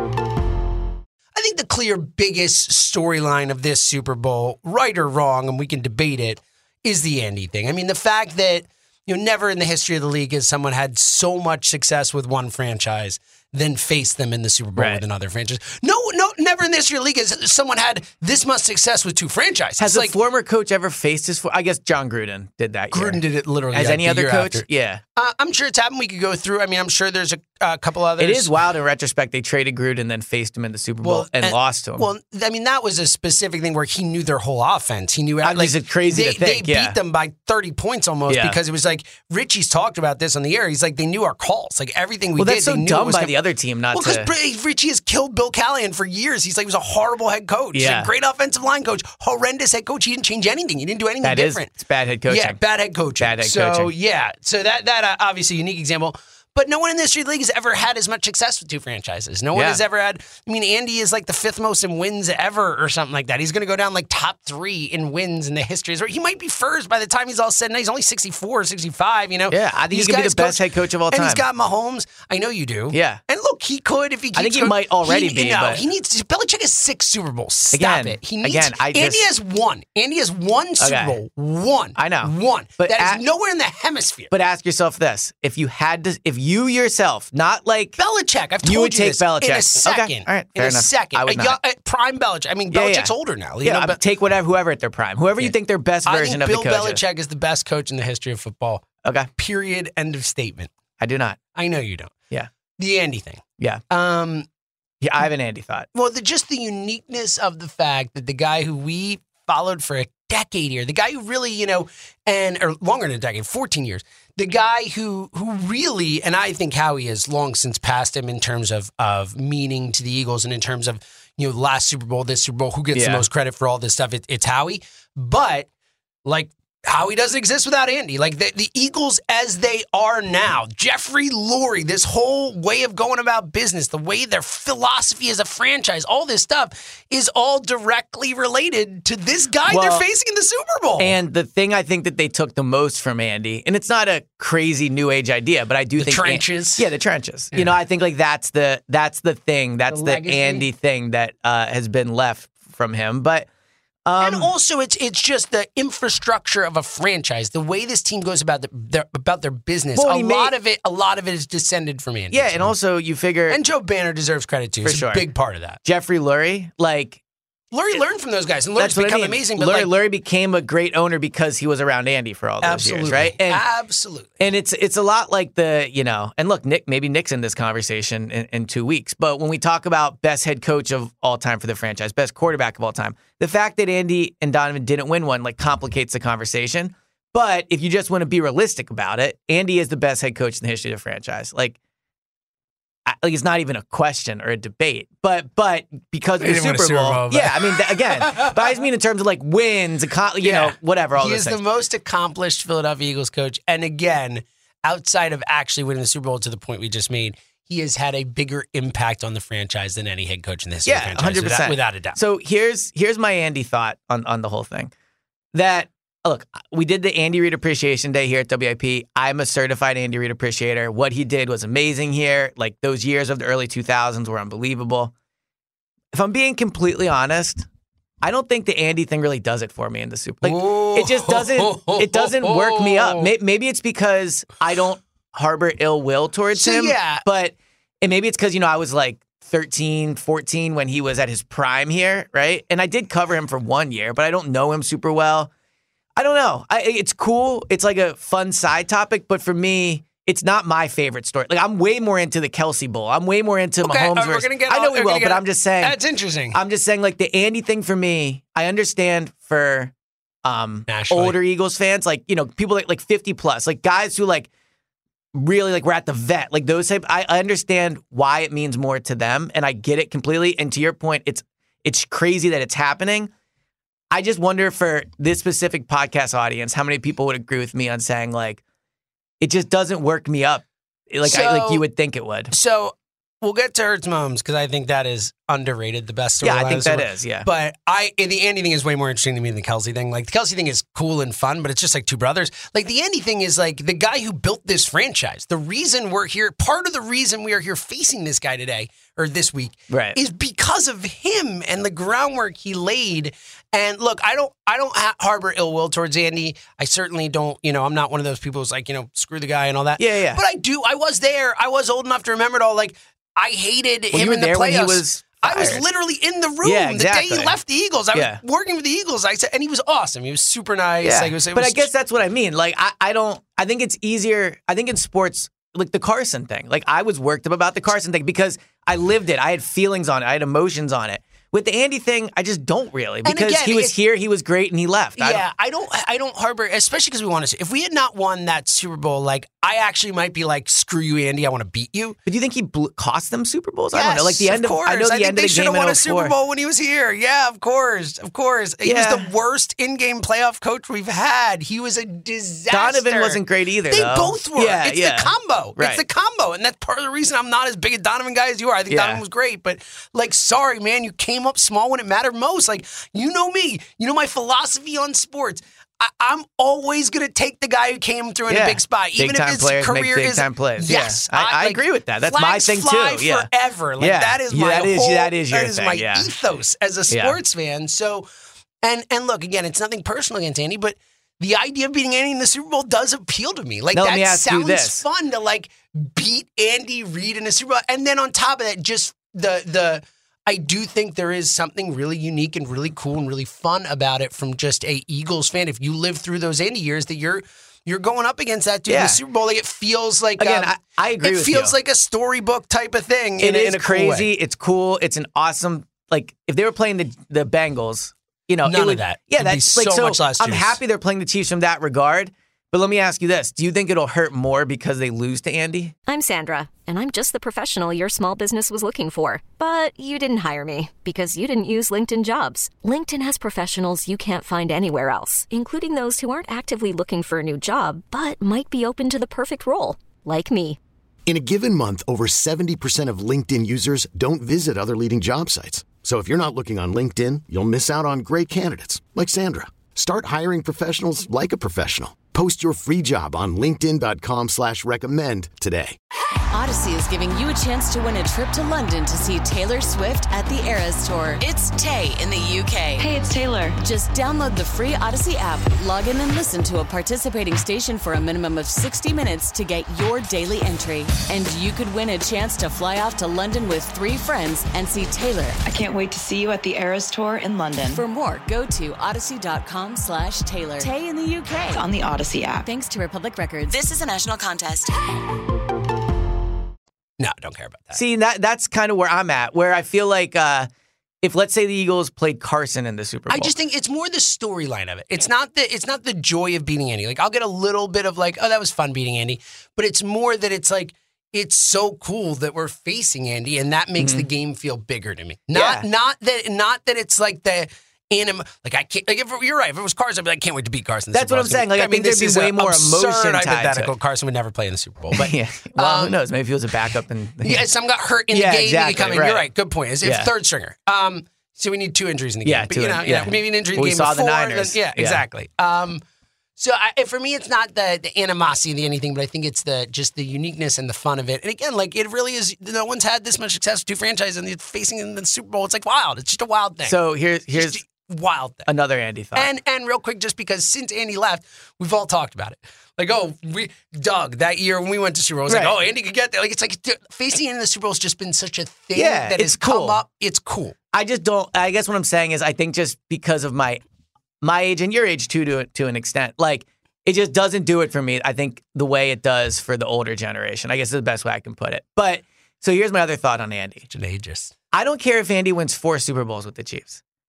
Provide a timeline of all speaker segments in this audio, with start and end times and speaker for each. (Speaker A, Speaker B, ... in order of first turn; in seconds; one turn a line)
Speaker A: 1.3-20.1
Speaker B: 14.8-15.0
Speaker B: 19.8-25.0
Speaker A: 22.9-28.5
Speaker B: 28.2-32.1
Speaker A: 31.0-43.3
Speaker B: 35.4-37.0
Speaker B: 38.3-38.6
Speaker B: 42.4-44.3
Speaker A: 43.9-51.7
Speaker B: 47.7-48.1
Speaker B: 51.2-52.6
Speaker A: 52.3-84.3
Speaker B: 53.1-53.9
Speaker B: 59.5-59.8
Speaker B: 69.5-71.5
Speaker B: 72.9-73.2
Speaker B: 74.3-75.9
Speaker B: 77.7-79.2
Speaker B: 80.8-81.2
Speaker B: 81.9-83.2
Speaker B: 84.3-88.0
Speaker A: 88.0-94.0
Speaker B: 88.6-91.6
Speaker B: 92.7-97.0
Speaker A: 96.0-98.8
Speaker B: 99.0-99.3
Speaker A: 99.4-100.7
Speaker B: 101.0-101.4
Speaker A: 101.5-102.1
Speaker A: 102.8-104.5
Speaker B: 105.0-105.9
Speaker A: 105.9-125.7
Speaker B: 122.9-123.2
Speaker A: 126.2-141.1
Speaker B: 139.6-140.1
Speaker B: 141.0-153.5
Speaker A: 146.0-146.8
Speaker A: 149.9-150.7
Speaker B: 154.1-154.5
Speaker A: 154.2-162.7
Speaker B: 159.9-160.6
Speaker B: 162.3-163.6
Speaker A: 163.5-165.8
Speaker B: 164.8-165.3
Speaker B: 165.8-167.2
Speaker A: 167.7-169.9
Speaker B: 168.8-173.6
Speaker A: 172.6-174.3
Speaker B: 174.4-191.8
Speaker B: 193.1-201.6
Speaker A: 196.4-198.0
Speaker A: 200.4-212.2
Speaker B: 210.8-214.9
Speaker B: 215.5-225.1
Speaker B: 226.1-227.7
Speaker B: 228.2-245.5
Speaker A: 230.4-233.3
Speaker A: 236.6-237.2
Speaker B: 246.2-256.0
Speaker A: 253.8-256.6
Speaker B: 256.5-259.9
Speaker B: 260.4-264.5
Speaker A: 260.9-261.4
Speaker B: 265.3-273.3
Speaker B: 274.1-278.6
Speaker B: 279.4-282.5
Speaker A: 281.2-281.8
Speaker A: 282.5-321.9
Speaker B: 286.4-287.5
Speaker B: 299.9-300.2
Speaker B: 309.9-310.4
Speaker B: 314.1-315.9
Speaker B: 316.6-317.6
Speaker B: 318.1-318.4
Speaker B: 321.0-335.4
Speaker A: 333.2-334.0
Speaker A: 335.2-342.2
Speaker B: 342.2-346.3
Speaker A: 343.9-378.3
Speaker B: 348.8-349.3
Speaker B: 352.7-356.0
Speaker B: 358.9-359.2
Speaker B: 368.5-376.4
Speaker B: 377.1-377.4
Speaker A: 378.8-404.3
Speaker B: 383.9-385.1
Speaker B: 398.9-399.2
Speaker B: 400.4-401.8
Speaker B: 403.4-416.0
Speaker A: 408.6-410.8
Speaker C: 416.1-430.8
Speaker D: 431.2-446.0
Speaker E: 446.5-453.1
Speaker F: 453.0-453.8
Speaker E: 453.8-465.6
Speaker F: 465.6-468.0
Speaker E: 467.9-471.8
Speaker F: 471.7-472.6
Speaker E: 472.6-474.9
Speaker A: 477.2-478.0
Speaker B: 477.9-480.7
Speaker B: 481.2-483.5
Speaker A: 483.3-506.1
Speaker B: 494.0-494.3
Speaker B: 495.5-495.9
Speaker B: 501.1-503.9
Speaker B: 505.1-507.7
Speaker A: 507.4-516.0
Speaker B: 508.3-510.3
Speaker B: 512.4-515.2
Speaker A: 516.6-527.0
Speaker B: 526.8-527.8
Speaker A: 527.5-528.7
Speaker B: 528.6-529.5
Speaker A: 529.3-540.7
Speaker B: 535.5-535.8
Speaker B: 538.9-540.0
Speaker B: 540.9-543.8
Speaker B: 544.4-553.9
Speaker A: 553.9-554.5
Speaker B: 554.7-557.0